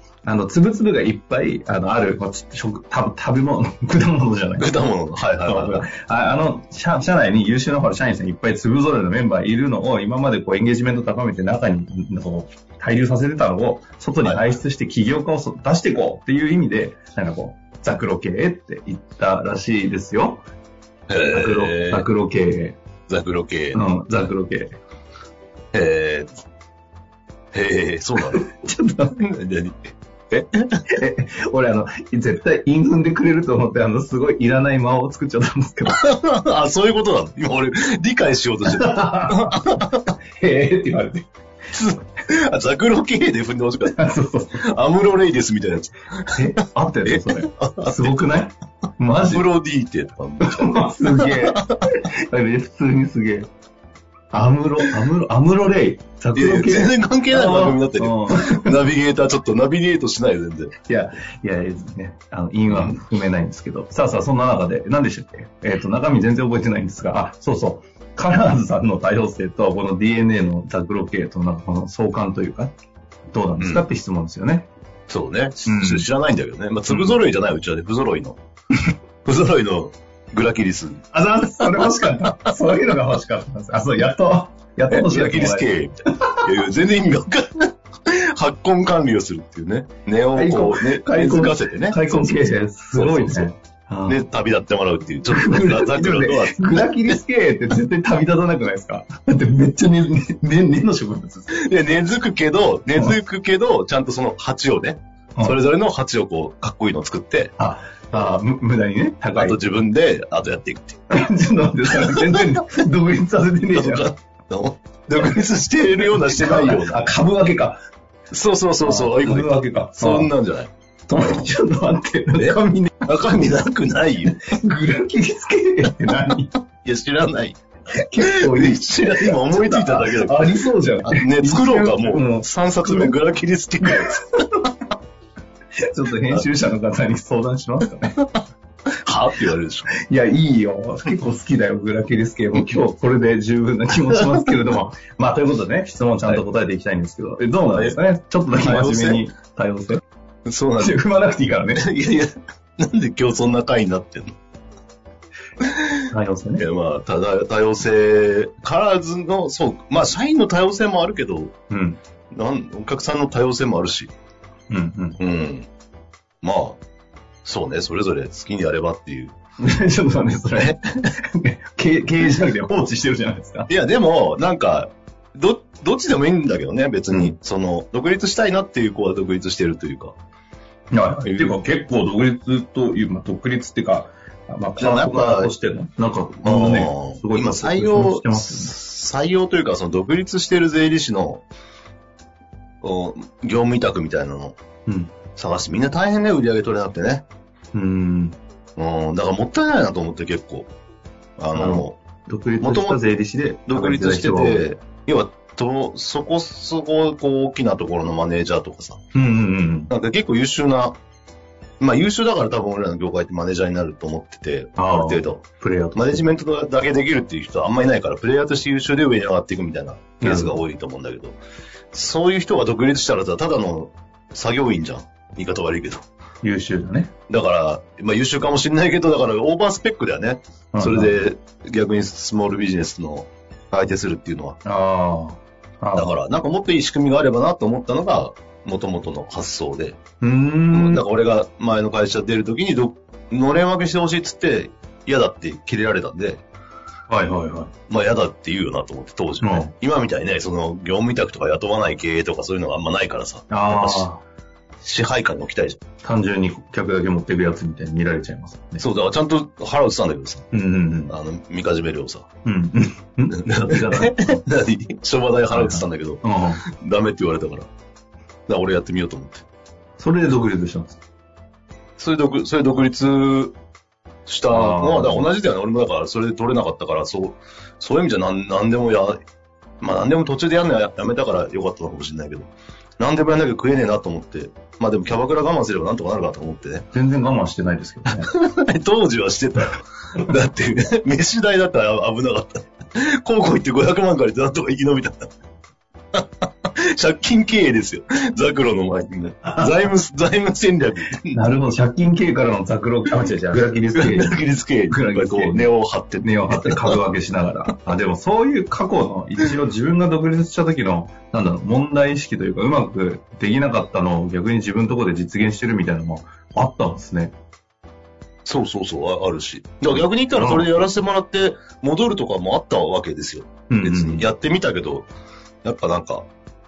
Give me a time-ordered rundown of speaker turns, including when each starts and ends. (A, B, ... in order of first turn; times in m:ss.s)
0:00.2-0:04.7 A
0:04.6-0:05.9 B
0:05.4-0:20.4 A
0:21.1-0:22.1 B
0:21.2-0:22.8 A
0:23.1-0:23.8 B
0:23.7-0:24.7 A
0:25.7-0:26.3 B
0:27.5-0:28.5 B
0:28.3-0:29.2 A
0:29.2-0:30.7 B
0:30.9-0:36.0 A
0:35.9-0:40.0 B
0:38.6-0:39.6 A
0:40.4-0:41.3 A
0:41.7-0:44.0 B
0:43.8-0:44.6 A
0:44.6-0:46.5 B
0:46.4-0:49.4 A
0:47.0-0:48.4 B
0:49.2-0:51.8 B
0:50.4-0:53.5 A
0:54.3-0:58.8 A
0:56.3-1:00.8 B
1:00.9-1:12.7 A
1:02.7-1:03.0 B
1:13.3-1:14.7 A
1:13.6-1:13.9 B
1:15.1-1:18.4 B
1:15.6-1:16.1 A
1:16.9-1:17.2 A
1:19.2-1:21.1 B
1:21.1-1:26.4 A
1:21.6-1:22.2 B
1:24.9-1:32.2 B
1:30.3-1:34.2 A
1:33.0-1:33.5 B
1:34.1-1:37.2 B
1:35.3-1:41.5 A
1:41.5-1:47.5 B
1:47.6-1:49.6 A
1:49.3-1:51.0 B
1:51.1-1:54.1 A
1:52.0-1:52.5 B
1:53.7-1:57.0 B
1:56.0-1:57.8 A
1:58.3-2:00.7 B
1:58.8-2:00.3 A
2:01.1-2:03.1 A
2:02.4-2:04.4 B
2:04.4-2:06.5 A
2:06.8-2:07.6 B
2:07.9-2:13.2 A
2:08.2-2:14.4 B
2:13.8-2:14.2 A
2:15.8-2:18.2 A
2:19.0-2:19.9 B
2:19.9-2:30.0 A
2:24.2-2:24.5 B
2:27.7-2:28.0 B
2:28.5-2:29.2 B
2:30.4-2:31.0 B
2:30.8-2:31.8 A
2:31.8-2:34.3 B
2:35.6-2:36.0 B
2:36.1-2:36.6 A
2:36.6-2:41.5 B
2:41.7-2:42.0 A
2:42.3-2:44.1 B
2:44.7-2:45.2 A
2:45.2-2:45.7 B
2:46.4-2:46.8 B
2:47.4-2:49.3 B
2:49.6-2:53.7 A
2:53.7-3:00.2 B
3:00.9-3:08.7 A
3:01.2-3:01.6 B
3:04.8-3:05.5 B
3:06.4-3:11.4 B
3:12.8-3:14.6 B
3:14.8-3:15.2 A
3:15.3-3:17.2 B
3:17.7-3:18.4 A
3:18.8-3:20.7 B
3:21.4-3:22.0 B
3:21.5-3:24.7 A
3:22.6-3:23.0 B
3:23.7-3:29.0 B
3:29.1-3:29.9 A
3:29.9-3:31.0 B
3:31.8-3:41.4 B
3:34.8-3:36.2 A
3:40.2-3:40.6 A
3:41.9-3:46.0 B
3:46.4-3:47.1 A
3:47.3-3:54.6 B
3:50.7-3:51.2 A
3:54.6-3:56.2 A
3:56.0-4:00.0 B
4:00.2-4:01.0 A
4:00.7-4:06.4 B
4:07.1-4:07.7 A
4:07.9-4:14.1 B
4:09.4-4:09.7 A
4:13.5-4:14.2 A
4:14.8-4:15.8 B
4:16.0-4:18.8 A
4:18.8-4:20.5 B
4:20.5-4:21.1 A
4:21.1-4:22.3 B
4:22.4-4:24.4 A
4:23.3-4:27.7 B
4:25.5-4:26.6 A
4:28.5-4:29.4 B
4:30.0-4:31.0 A
4:32.0-4:33.6 B
4:34.3-4:39.2 B
4:34.5-4:35.3 A
4:39.8-4:46.9 B
4:46.9-4:48.3 A
4:48.2-4:55.3 B
4:56.8-5:01.4 B
4:59.5-4:59.8 A
5:01.3-5:05.7 A
5:03.9-5:07.0 B
5:06.2-5:17.3 A
5:18.4-5:25.1 B
5:19.9-5:20.8 A
5:23.7-5:24.3 A
5:25.6-5:26.3 B